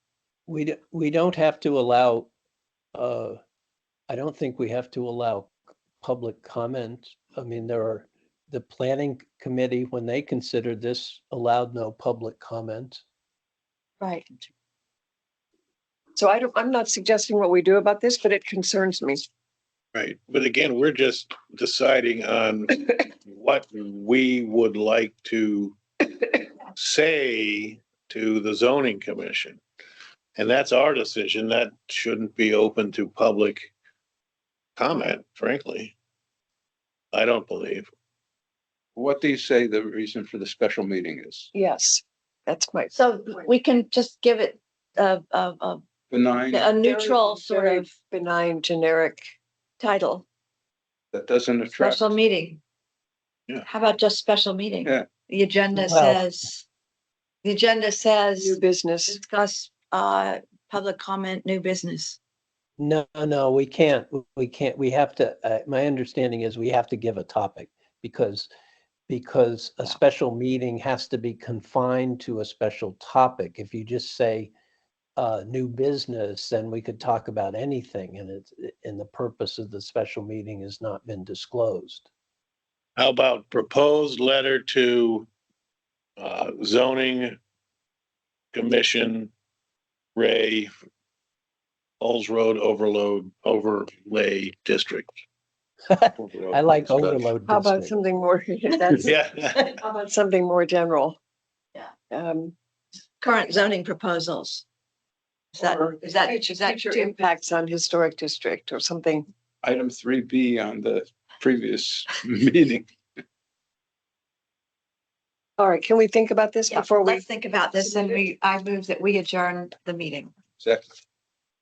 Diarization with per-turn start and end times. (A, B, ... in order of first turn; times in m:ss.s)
0:00.5-0:02.3 A
0:02.9-0:03.4 A
0:04.1-0:05.5 A
0:06.0-0:13.0 A
0:16.2-0:19.2 B
0:19.9-0:25.8 C
0:26.7-0:29.6 C
0:30.4-0:33.7 C
0:34.8-0:35.9 C
0:37.1-0:37.9 C
0:38.9-0:41.5 D
0:41.5-0:43.5 B
0:42.9-0:45.8 E
0:46.1-0:46.7 D
0:46.5-0:47.9 E
0:46.8-0:49.2 B
0:49.8-0:50.2 E
0:51.1-0:52.1 D
0:51.8-0:52.6 E
0:53.6-0:56.6 E
0:55.8-0:56.2 A
0:57.4-1:02.2 E
0:58.4-0:59.2 B
1:02.8-1:08.5 A
1:09.1-1:14.5 A
1:15.2-1:22.1 A
1:23.0-1:25.3 C
1:26.2-1:27.4 C
1:28.5-1:29.3 C
1:30.1-1:30.7 C
1:32.0-1:35.1 C
1:35.9-1:38.0 A
1:36.1-1:37.3 D
1:37.5-1:39.1 B
1:39.0-1:39.8 C
1:39.8-1:41.2 B
1:42.1-1:42.5 B
1:43.2-1:44.6 E
1:45.5-1:47.1 E
1:45.6-1:49.3 B
1:49.6-1:52.9 D
1:55.6-1:57.2 B
1:56.7-2:00.3 E
2:00.6-2:00.9 D